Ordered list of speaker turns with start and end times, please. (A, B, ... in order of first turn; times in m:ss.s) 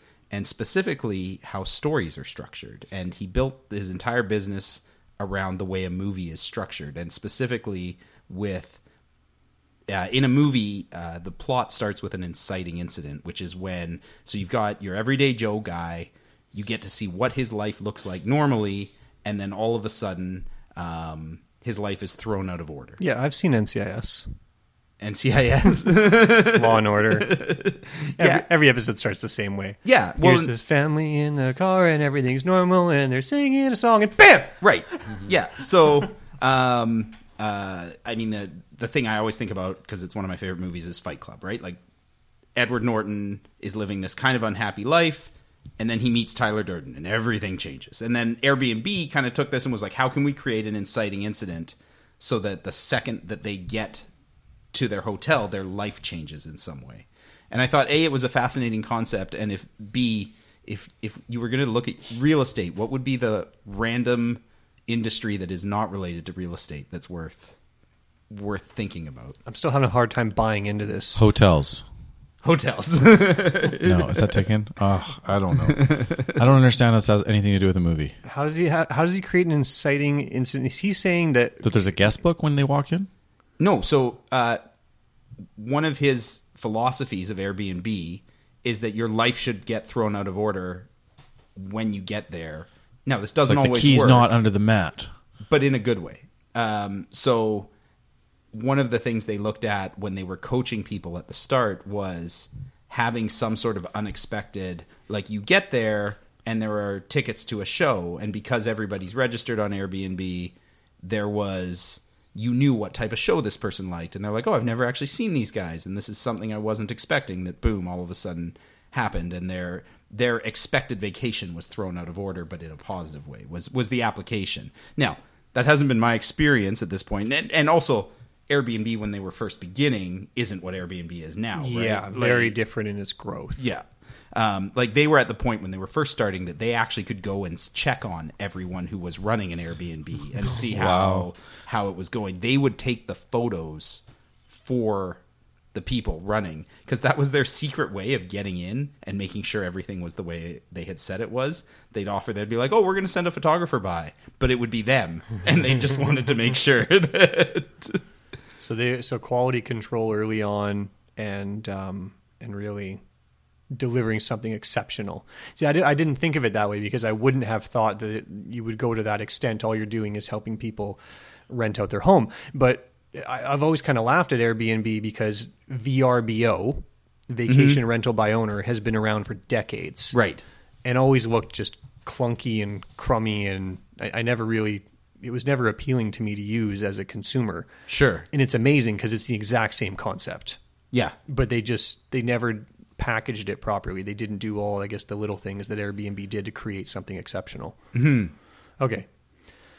0:00.3-0:08.8 A
0:09.9-0:23.0 A
0:23.0-0:24.3 B
0:25.0-0:28.4 A
0:26.3-0:27.4 B
0:28.2-0:34.6 B
0:29.8-0:30.5 A
0:34.6-0:41.8 A
0:42.6-0:54.1 A
0:54.7-1:07.5 A
1:08.3-1:09.4 A
1:09.4-1:11.2 B
1:11.1-1:11.8 C
1:12.4-1:14.4 A
1:13.8-1:18.1 C
1:15.6-1:16.3 A
1:18.2-1:22.0 B
1:21.6-1:23.1 C
1:23.6-1:24.6 A
1:25.6-1:30.9 A
1:31.6-1:34.3 A
1:33.4-1:35.1 C
1:35.5-1:37.7 A
1:38.5-2:12.5 A
2:11.6-2:13.6 B
2:13.6-2:25.2 A
2:20.5-2:21.3 C
2:25.7-2:38.0 A
2:38.6-2:43.0 B
2:43.7-3:00.2 B
2:57.5-2:57.8 A
3:00.1-3:00.4 A
3:00.8-3:07.7 B
3:07.9-3:08.2 A
3:08.3-3:10.6 B
3:11.3-3:17.8 B
3:17.9-3:18.3 A
3:18.8-3:19.0 B